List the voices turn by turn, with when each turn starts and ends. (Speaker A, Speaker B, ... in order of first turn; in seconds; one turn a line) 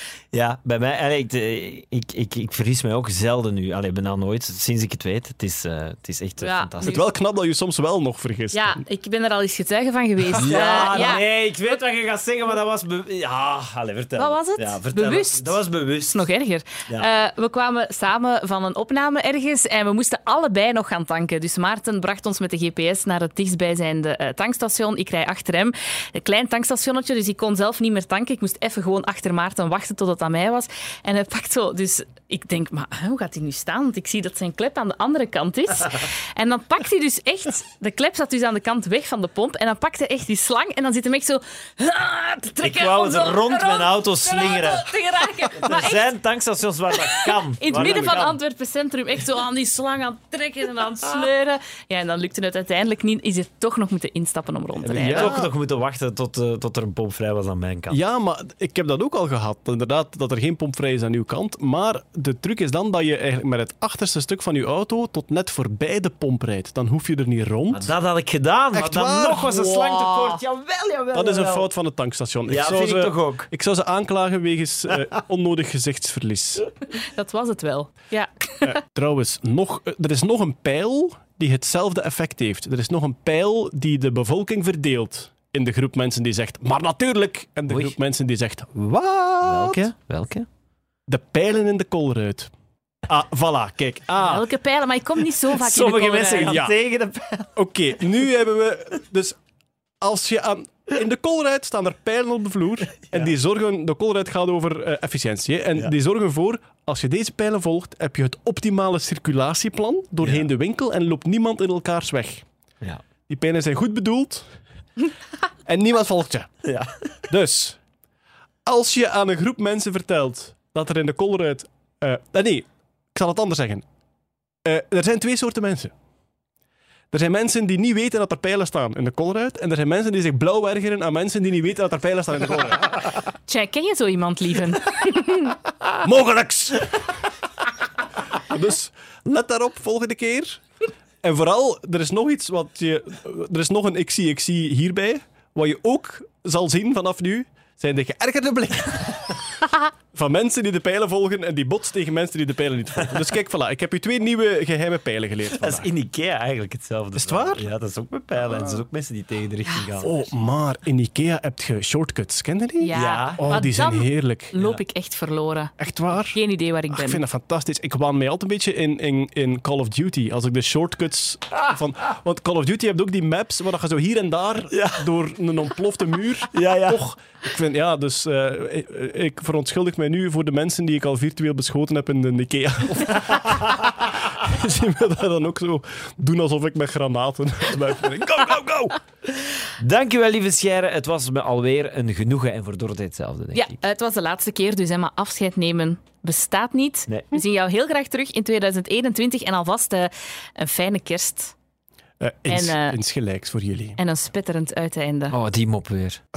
Speaker A: 0.3-7.0
Speaker B: 6.4-7.1
Speaker C: 6.8-8.8
Speaker B: 8.5-11.2
Speaker A: 10.4-16.3
Speaker B: 14.2-46.1
Speaker A: 42.6-44.9
Speaker A: 45.5-48.4
Speaker B: 47.0-55.3
Speaker C: 47.7-48.2
Speaker A: 54.8-58.0
Speaker C: 54.9-55.5
Speaker C: 57.9-67.9
Speaker A: 67.7-71.7
Speaker C: 68.7-70.4
Speaker C: 71.1-76.7
Speaker A: 72.5-73.5
Speaker B: 76.9-78.8
Speaker C: 78.6-89.9
Speaker A: 87.7-88.0
Speaker A: 89.4-90.5
Speaker C: 91.1-92.5
Speaker C: 93.1-94.4
Speaker B: 94.2-96.6
Speaker A: 95.5-97.5
Speaker C: 96.5-96.8
Speaker C: 97.6-99.4
Speaker C: 100.0-112.4
Speaker A: 110.2-110.5
Speaker C: 113.3-114.5
Speaker C: 115.7-116.5
Speaker A: 116.7-117.1
Speaker C: 117.3-117.8
Speaker C: 118.7-123.8
Speaker C: 124.7-125.9
Speaker C: 127.1-133.1
Speaker B: 133.5-135.6
Speaker C: 136.0-137.0
Speaker C: 138.4-140.6
Speaker C: 141.2-149.4
Speaker C: 150.1-155.9
Speaker A: 155.5-160.2
Speaker C: 157.2-157.7
Speaker C: 160.0-164.5
Speaker B: 162.8-167.2
Speaker A: 162.9-163.6
Speaker C: 165.8-189.0
Speaker A: 174.7-175.1
Speaker A: 176.5-177.0
Speaker A: 189.8-193.8
Speaker B: 193.5-201.5
Speaker C: 202.2-204.0
Speaker B: 202.5-203.0
Speaker B: 204.0-205.3
Speaker A: 205.3-206.2